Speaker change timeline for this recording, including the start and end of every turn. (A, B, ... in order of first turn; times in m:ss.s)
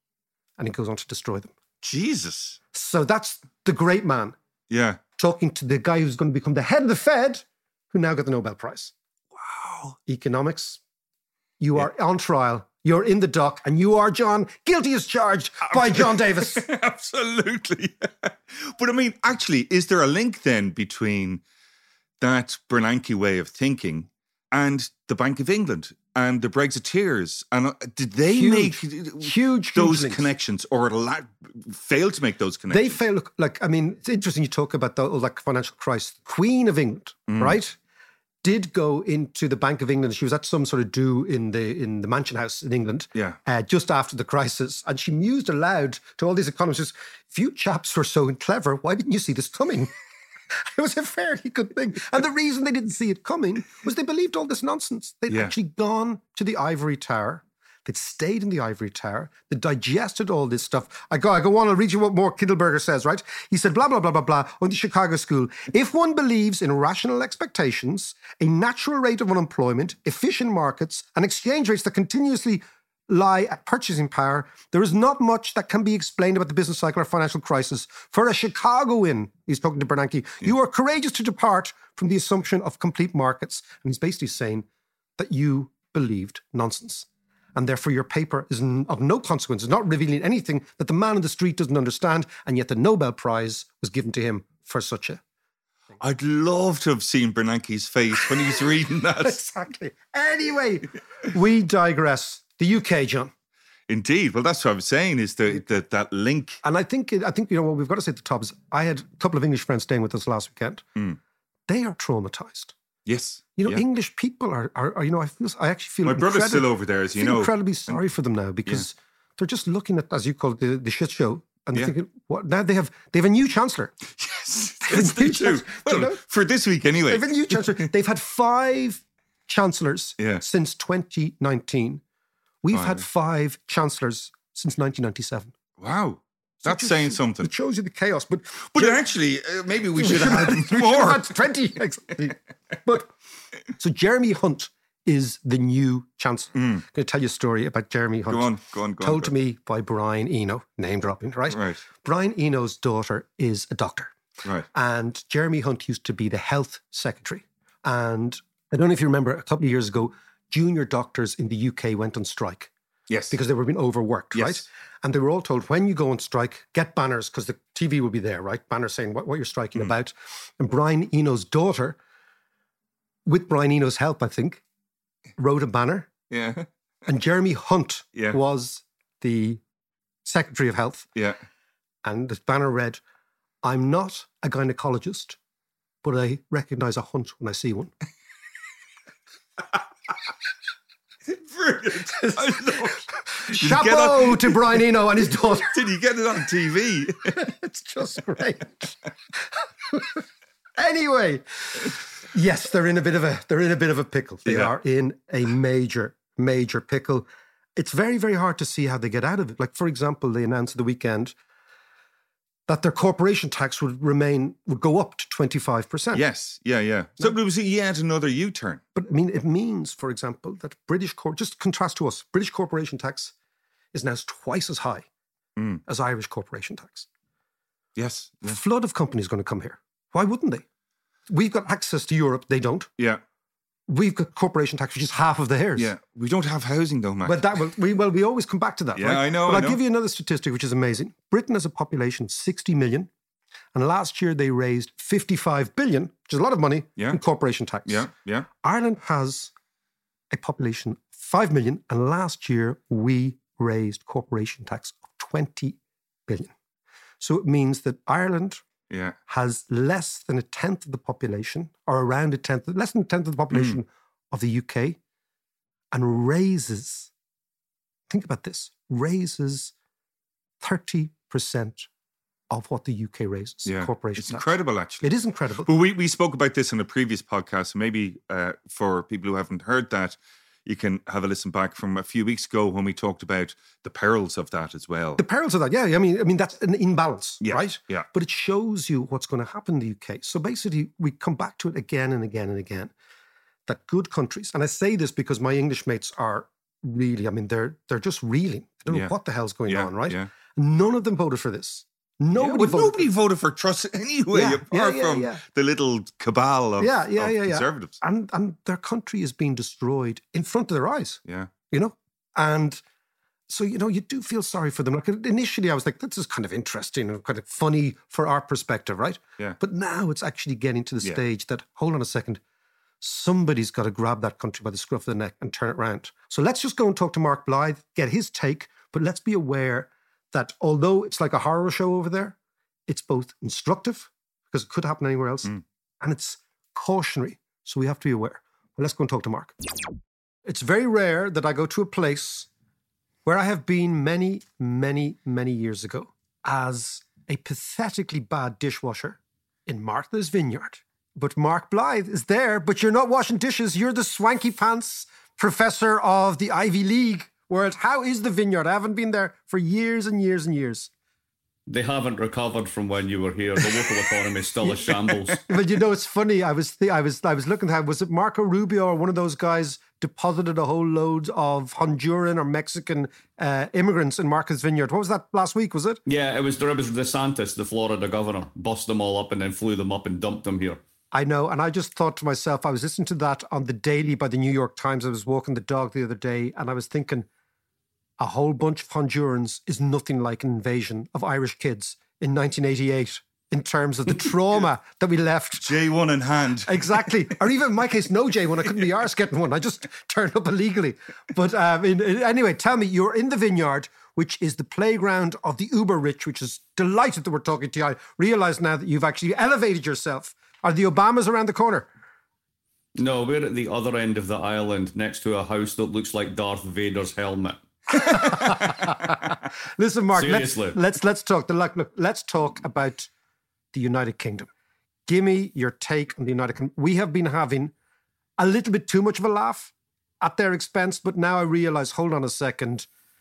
0:00.6-0:01.5 A
0:01.8-0:02.6 B
0:02.7-0:04.4 A
0:04.7-0:05.0 B
0:05.2-0:08.9 A
0:09.8-0:10.8 A
0:11.6-0:16.6 A
0:15.7-0:21.4 B
0:22.2-0:33.0 B
0:28.3-0:30.3 A
0:32.7-0:37.8 A
0:37.3-0:37.6 B
0:38.4-0:49.9 A
0:50.7-1:24.7 A
1:25.2-1:35.2 A
1:36.0-1:39.4 B
1:39.2-1:43.3 A
1:43.9-1:46.6 B
1:46.6-1:50.9 A
1:51.7-1:52.7 A
1:53.1-1:53.8 B
1:53.6-2:04.0 A
1:56.0-1:58.0 B
2:04.1-2:07.7 B
2:04.8-2:06.2 A
2:07.1-2:12.0 A
2:12.6-2:15.5 A
2:12.7-2:13.0 B
2:15.8-2:17.5 B
2:16.6-2:19.0 A
2:18.7-2:21.3 B
2:20.0-2:23.1 A
2:23.7-2:34.1 A
2:26.6-2:26.8 B
2:28.3-2:29.3 B
2:31.5-2:31.8 B
2:34.7-2:42.7 A
2:43.1-2:43.4 B
2:43.3-2:52.0 A
2:44.3-2:44.6 B
2:53.2-2:54.6 A
2:55.4-2:56.1 A
2:56.3-2:56.7 B
2:57.1-2:59.6 A
3:00.2-3:01.1 A
3:02.0-3:03.0 A
3:03.6-3:05.4 A
3:06.0-3:07.9 A
3:11.3-3:17.4 B
3:12.1-3:15.7 A
3:17.3-3:19.0 A
3:19.9-3:20.2 A
3:20.8-3:31.3 A
3:24.4-3:24.7 B
3:32.7-3:36.2 A
3:36.1-3:38.8 B
3:38.9-3:43.3 A
3:43.9-3:45.1 A
3:45.6-3:45.8 B
3:45.8-3:47.1 A
3:48.0-3:48.6 B
3:48.4-3:50.6 A
3:51.3-3:52.9 A
3:53.9-3:55.9 A
3:55.8-3:57.4 B
3:57.2-4:03.1 A
3:58.9-3:59.8 B
4:03.7-4:08.1 A
4:07.8-4:08.5 B
4:08.6-4:09.5 A
4:10.3-4:16.5 A
4:17.2-4:18.6 A
4:18.9-4:19.2 B
4:19.3-4:25.0 A
4:23.5-4:23.8 B
4:25.9-4:27.1 A
4:28.1-4:29.7 A
4:30.6-4:31.9 A
4:32.5-4:34.5 A
4:33.7-4:35.1 B
4:35.0-4:35.7 A
4:35.7-4:45.2 B
4:45.2-4:52.9 A
4:47.4-4:48.1 B
4:53.7-5:03.1 A
4:59.7-5:00.3 B
5:02.3-5:08.0 B
5:04.3-5:05.4 A
5:06.8-5:12.8 A
5:13.5-5:22.4 A
5:23.0-5:32.3 A
5:32.9-5:39.5 A
5:40.4-5:42.5 A
5:43.2-6:00.9 A
6:01.7-6:05.4 C
6:05.4-6:16.0 A
6:16.1-6:20.8 C
6:21.1-6:27.3 A
6:28.2-6:35.8 A
6:35.7-6:37.0 B
6:36.6-6:51.9 A
6:53.0-6:58.5 C
6:57.9-7:03.1 A
7:00.1-7:00.8 C
7:03.7-7:04.5 A
7:05.1-7:07.7 A
7:08.4-7:12.9 A